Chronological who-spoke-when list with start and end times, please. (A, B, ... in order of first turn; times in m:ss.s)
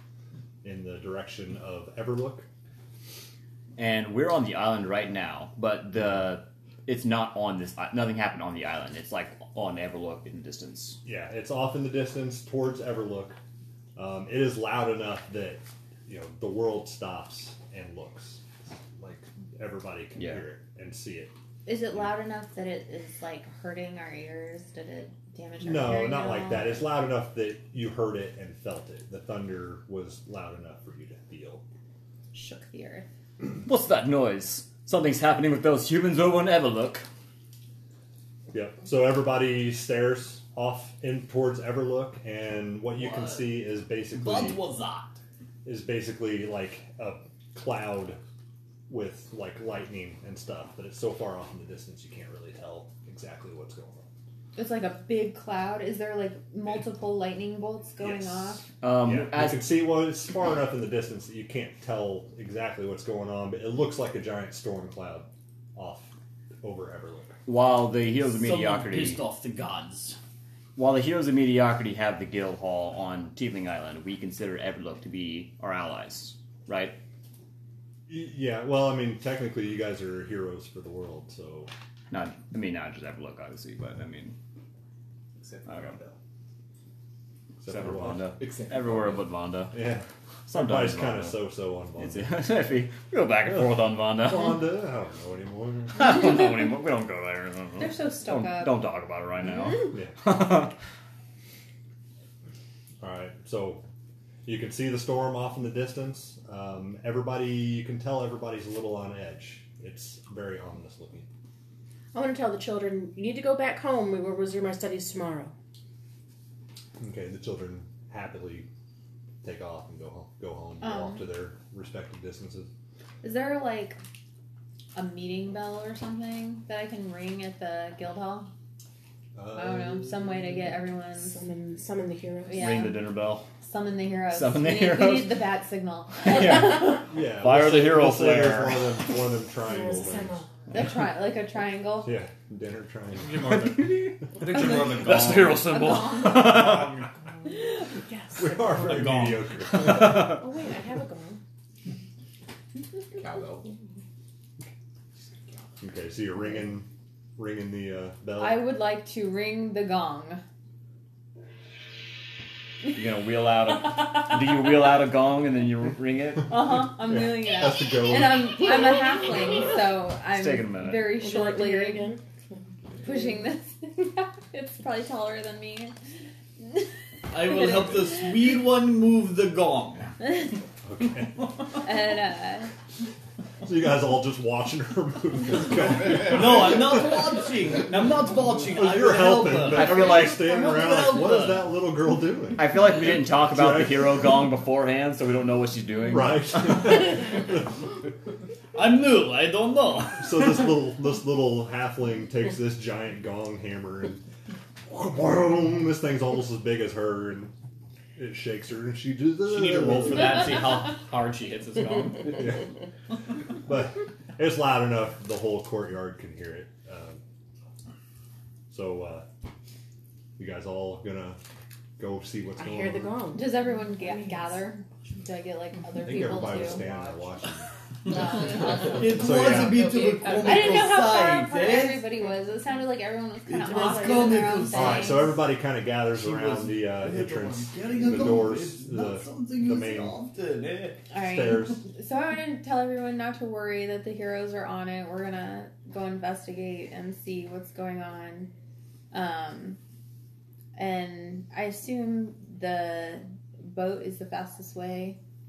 0:00.6-0:02.5 A
0:03.8-0:11.0 B
0:11.0-0:13.4 A
0:14.0-0:18.4 A
0:19.0-0:21.3 A
0:21.6-0:26.9 C
0:25.6-0:31.6 A
0:32.3-0:33.1 C
0:33.6-0:37.0 B
0:38.5-0:44.6 A
0:43.0-0:45.2 D
0:45.6-0:48.2 A
0:48.9-0:54.1 A
0:54.6-0:58.6 C
0:58.0-1:07.4 A
0:58.8-0:59.7 B
1:07.4-1:09.2 B
1:08.3-1:10.2 D
1:10.8-1:17.0 B
1:18.1-1:21.7 A
1:22.1-1:24.3 B
1:25.4-1:26.2 E
1:25.6-1:26.0 B
1:27.6-1:28.4 A
1:27.6-1:29.8 B
1:28.2-1:29.3 E
1:29.7-1:32.4 A
1:30.5-1:31.4 B
1:32.0-1:34.6 B
1:33.5-1:36.2 A
1:35.9-1:40.7 B
1:37.8-1:38.8 C
1:39.9-1:40.2 A
1:43.0-1:43.8 A
1:44.4-1:51.3 A
1:52.1-1:55.5 F
1:57.0-1:58.7 A
1:59.4-2:02.7 A
2:00.8-2:01.2 C
2:03.2-2:04.0 C
2:04.9-2:08.5 C
2:09.3-2:10.6 A
2:09.5-2:11.4 C
2:11.2-2:13.0 F
2:12.5-2:13.0 C
2:12.5-2:13.5 B
2:13.6-2:17.0 C
2:14.3-2:15.4 B
2:16.2-2:19.0 B
2:17.0-2:20.4 A
2:19.6-2:20.5 F
2:20.7-2:22.1 C
2:22.0-2:23.4 A
2:23.1-2:27.1 D
2:23.5-2:24.3 B
2:24.5-2:26.9 C
2:25.1-2:25.5 B
2:26.4-2:26.8 B
2:27.3-2:29.1 F
2:27.6-2:27.9 C
2:28.3-2:30.4 A
2:28.6-2:29.5 D
2:29.9-2:31.4 F
2:30.1-2:30.3 B
2:33.1-2:33.7 E
2:35.8-2:38.7 A
2:38.4-2:40.4 C
2:42.9-2:46.6 B
2:43.9-2:44.6 C
2:46.5-2:52.1 C
2:46.9-2:48.6 A
2:50.3-2:51.1 B
2:51.1-2:52.2 F
2:53.0-2:56.0 C
2:56.7-2:58.2 C
2:57.3-3:00.2 D
3:00.8-3:01.4 A
3:01.8-3:02.7 C
3:03.6-3:07.2 A
3:06.1-3:11.7 D
3:08.7-3:12.7 A
3:09.7-3:10.5 B
3:12.6-3:17.2 B
3:13.4-3:14.2 A
3:16.1-3:17.7 A
3:18.7-3:20.5 D
3:20.2-3:24.2 A
3:24.8-3:27.5 A
3:28.2-3:30.7 A
3:29.5-3:32.6 D
3:32.2-3:32.7 A
3:33.5-3:37.2 A
3:38.7-3:39.2 A
3:40.4-3:41.4 A
3:42.0-3:43.3 A
3:42.6-3:44.6 F
3:43.3-3:47.3 C
3:46.0-3:47.7 A
3:48.0-3:49.4 C
3:48.4-3:52.0 D
3:49.0-3:49.9 A
3:49.9-3:50.6 F
3:50.2-3:55.4 C
3:53.5-3:55.2 D
3:53.6-3:54.7 F
3:54.7-4:00.2 A
3:56.1-4:01.0 D
4:01.1-4:08.5 C
4:01.1-4:01.8 A
4:09.1-4:09.8 C
4:10.7-4:15.2 C